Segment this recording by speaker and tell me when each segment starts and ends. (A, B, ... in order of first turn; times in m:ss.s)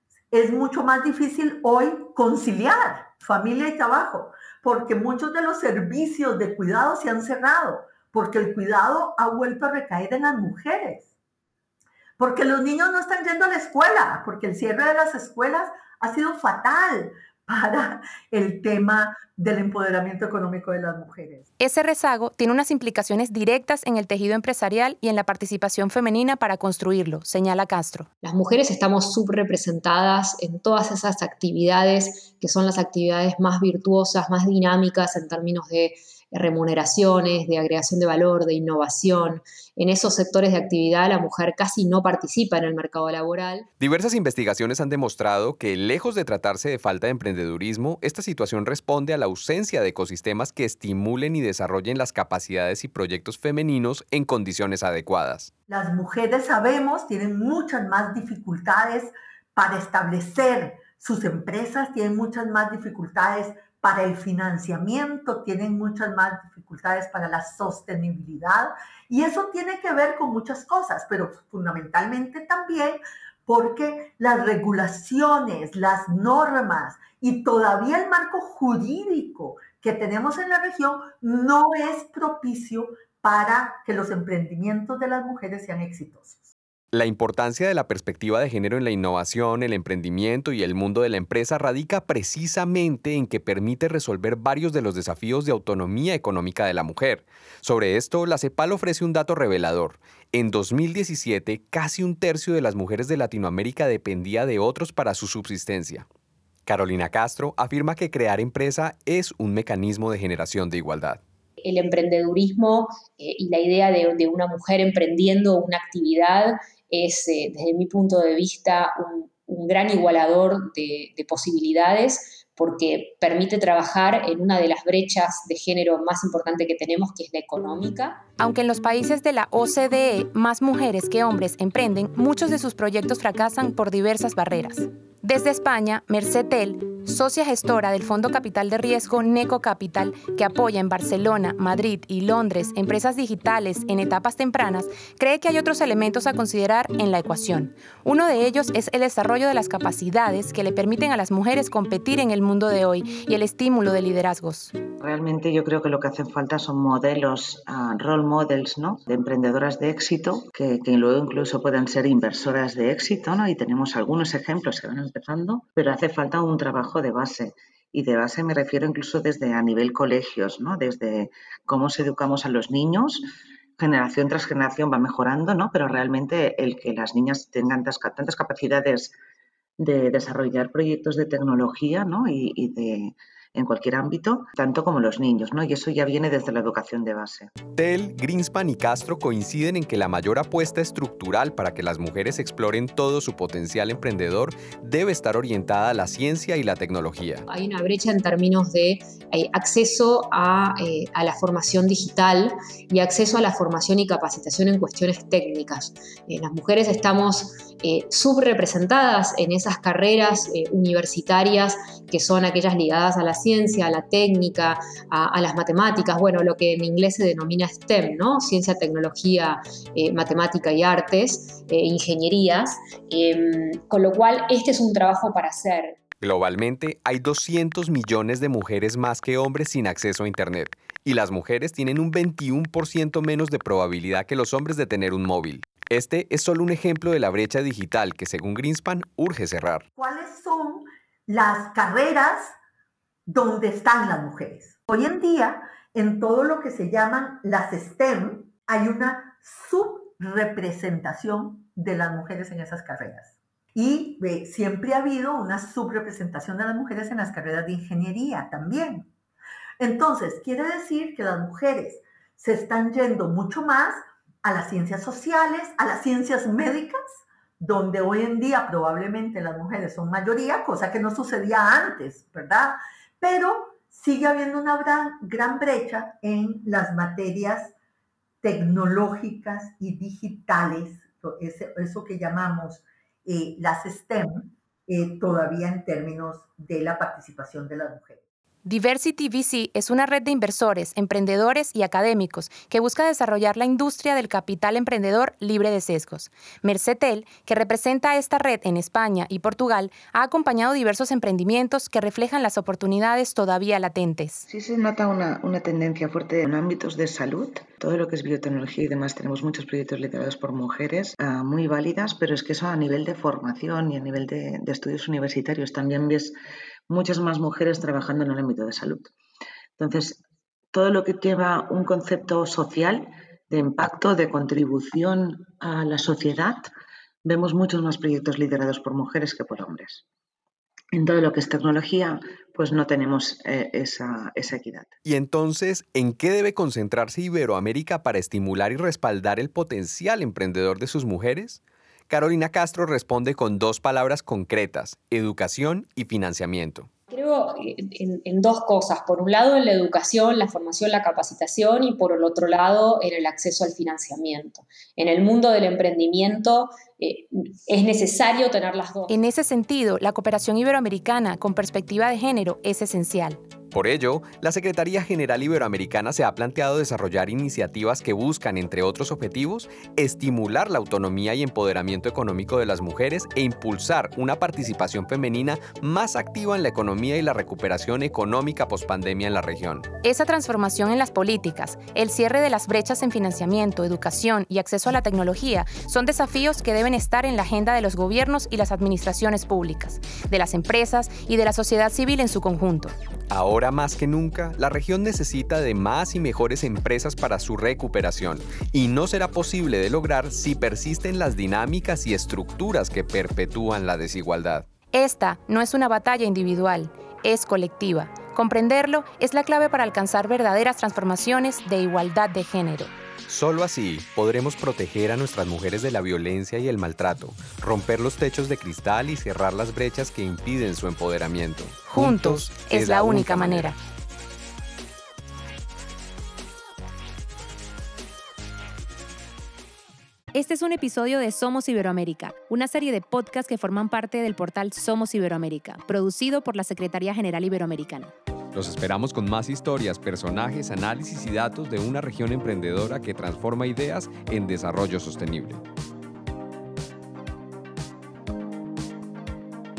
0:00.3-0:11.1 A
0:12.2-0:21.5 A
0:21.6-0:28.1 B
0:28.2-0:43.7 C
0:43.8-0:55.5 D
0:55.7-1:26.5 A
1:26.9-1:46.1 D
1:46.7-1:51.2 D
1:51.6-2:08.2 C
2:08.4-2:34.7 B
2:35.0-2:53.2 E
2:53.8-2:59.2 E
2:59.8-3:07.5 E
3:07.8-3:17.5 D
3:17.5-3:46.0 C
3:46.2-3:59.8 D
4:00.0-4:02.6 A
4:03.3-4:19.1 A
4:19.8-4:37.8 A
4:38.4-4:48.2 A
4:48.6-5:04.4 B
5:04.5-5:16.3 E
5:16.9-5:19.1 E
5:19.8-5:20.2 E
5:20.7-5:26.7 E
5:27.2-5:30.0 E
5:30.9-5:34.9 E
5:35.0-5:46.9 D
5:47.1-5:59.2 C
5:59.1-6:03.4 B
6:03.7-6:19.9 D
6:20.0-6:32.9 B
6:33.3-6:44.7 D
6:44.9-6:52.9 B
6:53.3-7:03.7 D
7:01.9-7:03.8 B
7:10.3-7:18.1 B
7:18.5-7:25.6 D